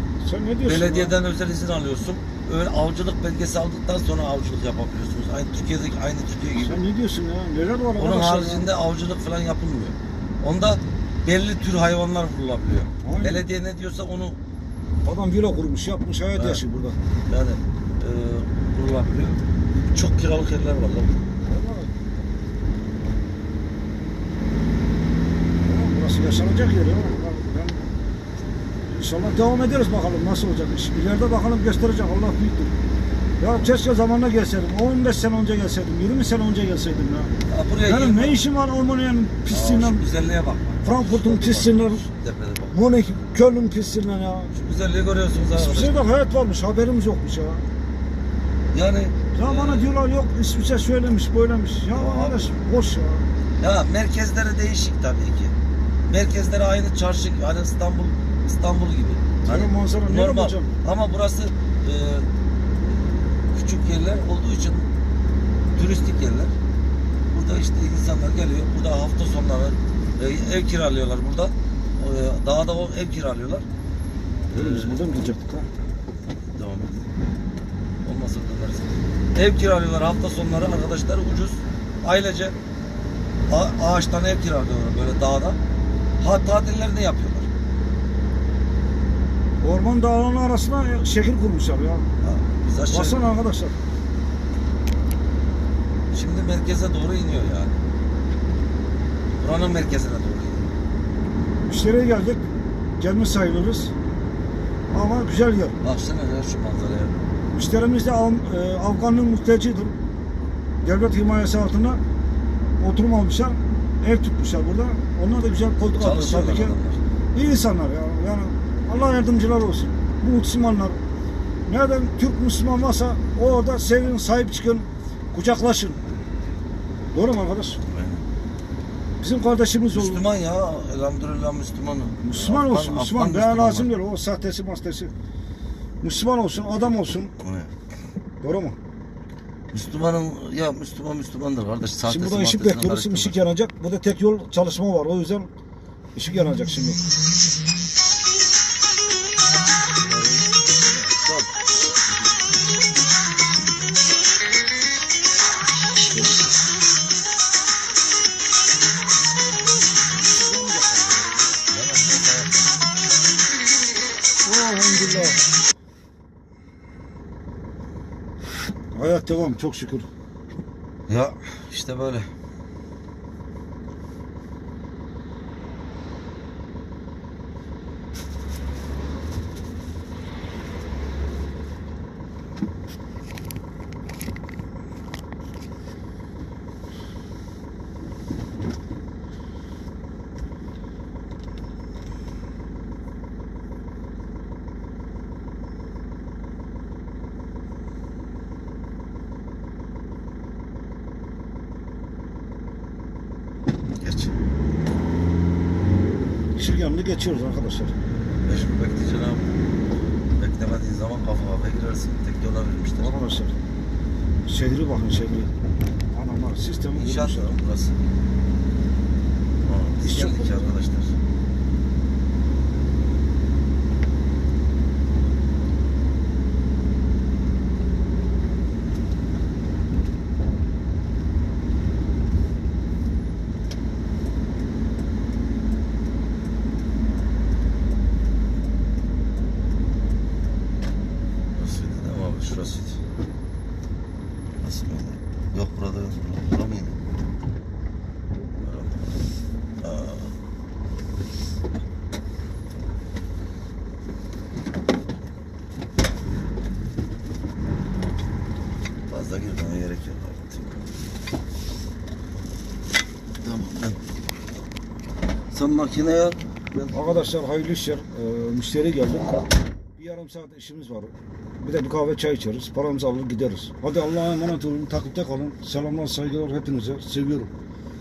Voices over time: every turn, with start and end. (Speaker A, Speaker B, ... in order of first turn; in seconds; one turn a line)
Speaker A: 0.2-1.1
Speaker B: 0.7-6.8
Speaker A: 6.5-8.7
Speaker B: 8.0-14.4
Speaker A: 13.0-13.4
Speaker A: 15.0-17.0
Speaker B: 16.4-16.6
Speaker B: 17.3-21.2
Speaker A: 21.4-21.9
Speaker A: 25.6-27.8
Speaker A: 28.9-32.7
Speaker A: 33.4-37.3
Speaker B: 37.5-38.4
Speaker A: 37.8-40.0
Speaker B: 39.5-42.8
Speaker A: 40.8-42.0
Speaker A: 42.7-44.5
Speaker B: 44.5-46.0
Speaker A: 45.5-47.6
Speaker B: 48.7-49.9
Speaker A: 49.3-53.2
Speaker B: 51.9-52.5
Speaker B: 53.6-55.5
Speaker B: 56.1-62.3
Speaker A: 59.4-60.7
Speaker B: 62.8-64.9
Speaker B: 65.7-66.5
Speaker B: 67.3-73.6
Speaker B: 74.5-75.2
Speaker A: 74.5-75.7
Speaker B: 76.5-77.1
Speaker B: 78.0-82.5
Speaker B: 83.5-85.6
Speaker B: 86.2-87.5
Speaker A: 89.6-92.0
Speaker B: 92.2-93.3
Speaker A: 92.9-93.7
Speaker B: 96.1-97.8
Speaker B: 99.4-100.7
Speaker A: 101.7-102.4
Speaker A: 103.0-103.9
Speaker A: 104.9-105.8
Speaker B: 105.8-107.2
Speaker A: 107.5-110.0
Speaker A: 110.8-112.0
Speaker A: 112.8-116.8
Speaker B: 116.0-117.0
Speaker A: 117.3-121.0
Speaker A: 121.7-126.0
Speaker A: 127.1-127.8
Speaker B: 127.8-128.2
Speaker A: 129.2-130.2
Speaker B: 129.9-133.9
Speaker A: 132.2-135.1
Speaker A: 136.0-137.3
Speaker B: 137.4-137.7
Speaker A: 138.4-138.8
Speaker B: 139.7-143.5
Speaker A: 142.0-145.5
Speaker A: 146.1-147.0
Speaker B: 150.1-151.5
Speaker B: 152.1-152.4
Speaker A: 160.2-161.3
Speaker B: 161.7-162.7
Speaker A: 164.4-165.4
Speaker A: 168.9-170.1
Speaker B: 171.1-172.3
Speaker B: 204.0-204.3
Speaker A: 206.6-207.9
Speaker B: 208.4-209.5
Speaker B: 210.4-213.1
Speaker A: 213.0-213.5
Speaker A: 214.5-215.5
Speaker A: 216.1-217.6
Speaker B: 216.9-217.9
Speaker B: 219.6-221.1
Speaker A: 220.0-220.6
Speaker B: 241.5-243.0
Speaker B: 244.6-247.0
Speaker B: 248.6-249.2
Speaker B: 249.8-250.3
Speaker B: 259.1-260.9
Speaker B: 263.4-264.0
Speaker B: 265.5-266.9
Speaker A: 266.9-269.4
Speaker A: 269.9-277.5